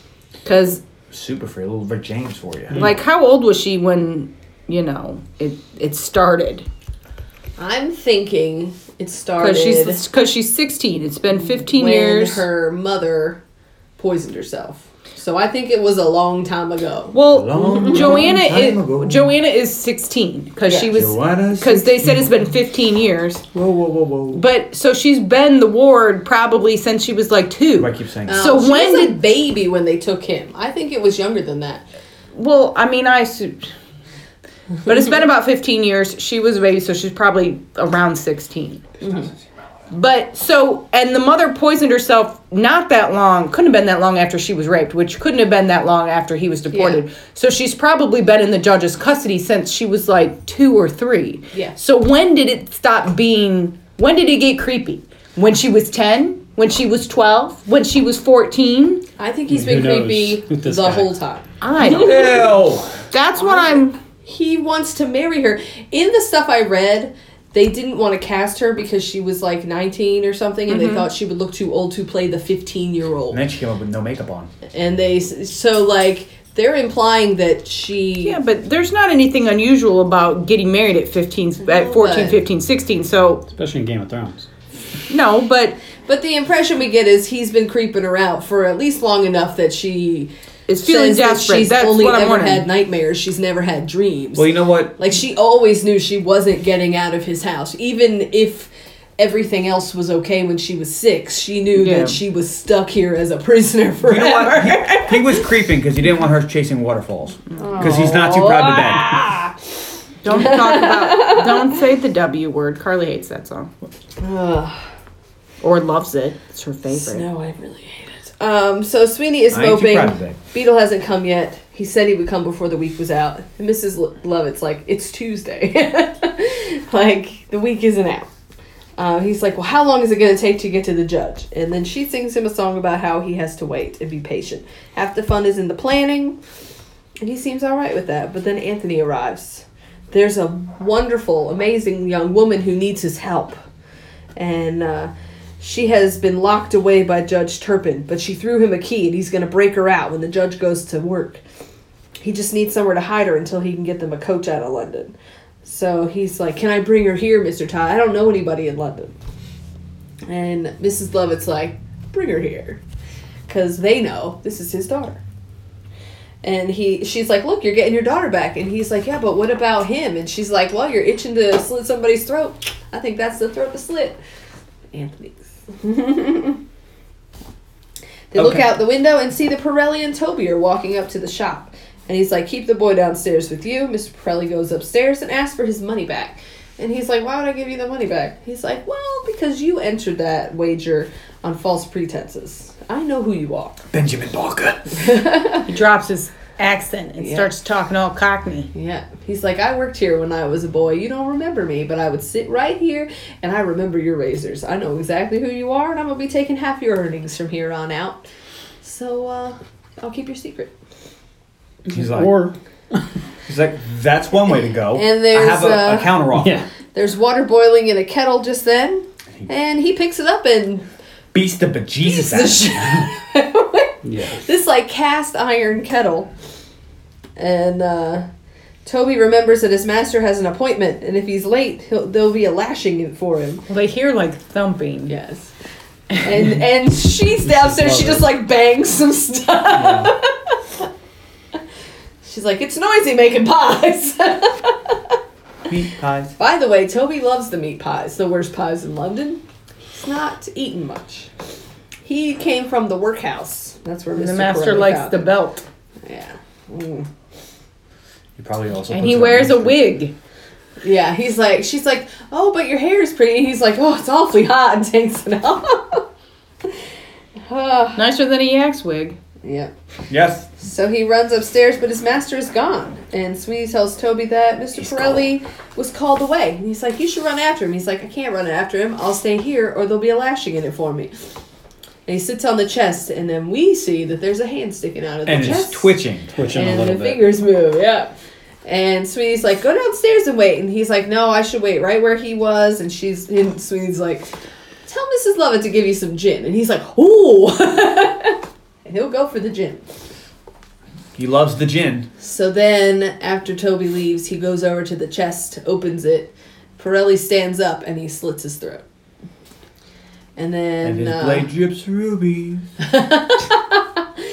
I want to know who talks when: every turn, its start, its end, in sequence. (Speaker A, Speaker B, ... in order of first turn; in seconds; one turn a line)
Speaker A: 0.5-0.8
Speaker B: 1.1-2.9
Speaker A: 2.8-6.7
Speaker C: 7.6-10.0
Speaker A: 9.4-12.4
Speaker C: 11.4-13.4
Speaker C: 14.0-18.2
Speaker A: 17.1-23.4
Speaker B: 17.3-19.3
Speaker C: 20.7-20.9
Speaker B: 20.9-22.3
Speaker B: 23.5-24.4
Speaker A: 24.3-29.2
Speaker B: 27.8-28.5
Speaker C: 28.3-31.8
Speaker A: 32.3-33.7
Speaker A: 34.9-38.8
Speaker C: 39.0-39.3
Speaker A: 39.9-59.0
Speaker C: 46.7-47.0
Speaker C: 59.2-62.3
Speaker D: 59.5-61.1
Speaker A: 61.6-62.5
Speaker B: 61.9-63.0
Speaker A: 63.1-64.0
Speaker C: 63.4-73.4
Speaker A: 70.7-71.1
Speaker B: 73.3-74.5
Speaker C: 74.7-78.4
Speaker A: 78.2-83.5
Speaker C: 81.6-82.4
Speaker D: 83.5-84.5
Speaker A: 85.1-85.8
Speaker C: 86.1-105.4
Speaker A: 90.7-92.7
Speaker B: 94.3-95.0
Speaker A: 101.8-102.2
Speaker B: 104.0-109.2
Speaker A: 107.6-108.0
Speaker C: 107.6-109.5
Speaker A: 110.2-113.7
Speaker C: 110.3-111.7
Speaker C: 114.2-114.8
Speaker A: 115.6-117.2
Speaker C: 116.9-128.3
Speaker B: 119.5-120.4
Speaker C: 129.0-136.4
Speaker C: 137.2-143.6
Speaker C: 144.4-151.4
Speaker C: 152.2-159.1
Speaker C: 160.3-162.8
Speaker C: 163.5-165.2
Speaker C: 166.4-174.2
Speaker C: 174.9-176.6
Speaker C: 178.3-193.8
Speaker B: 178.3-178.7
Speaker B: 193.9-195.1
Speaker C: 194.9-195.7
Speaker A: 195.7-198.7
Speaker C: 197.2-197.5
Speaker C: 198.7-208.2
Speaker C: 208.8-210.7
Speaker B: 211.9-212.3
Speaker D: 211.9-212.6
Speaker B: 213.5-216.6
Speaker C: 214.9-216.2
Speaker D: 216.3-216.7
Speaker C: 216.9-220.8
Speaker B: 221.3-223.1
Speaker C: 222.0-226.3
Speaker D: 224.0-224.4
Speaker C: 227.4-228.3
Speaker C: 228.8-233.7
Speaker A: 233.7-235.2
Speaker C: 235.1-235.5
Speaker C: 236.2-240.8
Speaker D: 237.5-238.3
Speaker B: 239.8-240.1
Speaker C: 242.2-245.2
Speaker B: 245.7-246.3
Speaker C: 246.4-249.4
Speaker C: 249.9-251.3
Speaker C: 252.1-255.3
Speaker A: 254.2-255.6
Speaker C: 256.0-257.1
Speaker B: 258.4-259.8
Speaker A: 258.9-260.1
Speaker C: 260.8-266.1
Speaker C: 267.5-268.0
Speaker A: 268.0-269.2
Speaker C: 269.4-269.7
Speaker B: 270.1-270.5
Speaker C: 270.6-281.1
Speaker B: 274.8-275.2
Speaker C: 282.1-288.1
Speaker B: 285.2-286.3
Speaker D: 286.4-287.2
Speaker C: 288.6-294.3
Speaker C: 294.9-299.8
Speaker B: 301.2-302.1
Speaker C: 302.2-308.8
Speaker C: 310.4-311.5
Speaker B: 310.8-312.6
Speaker C: 312.8-314.0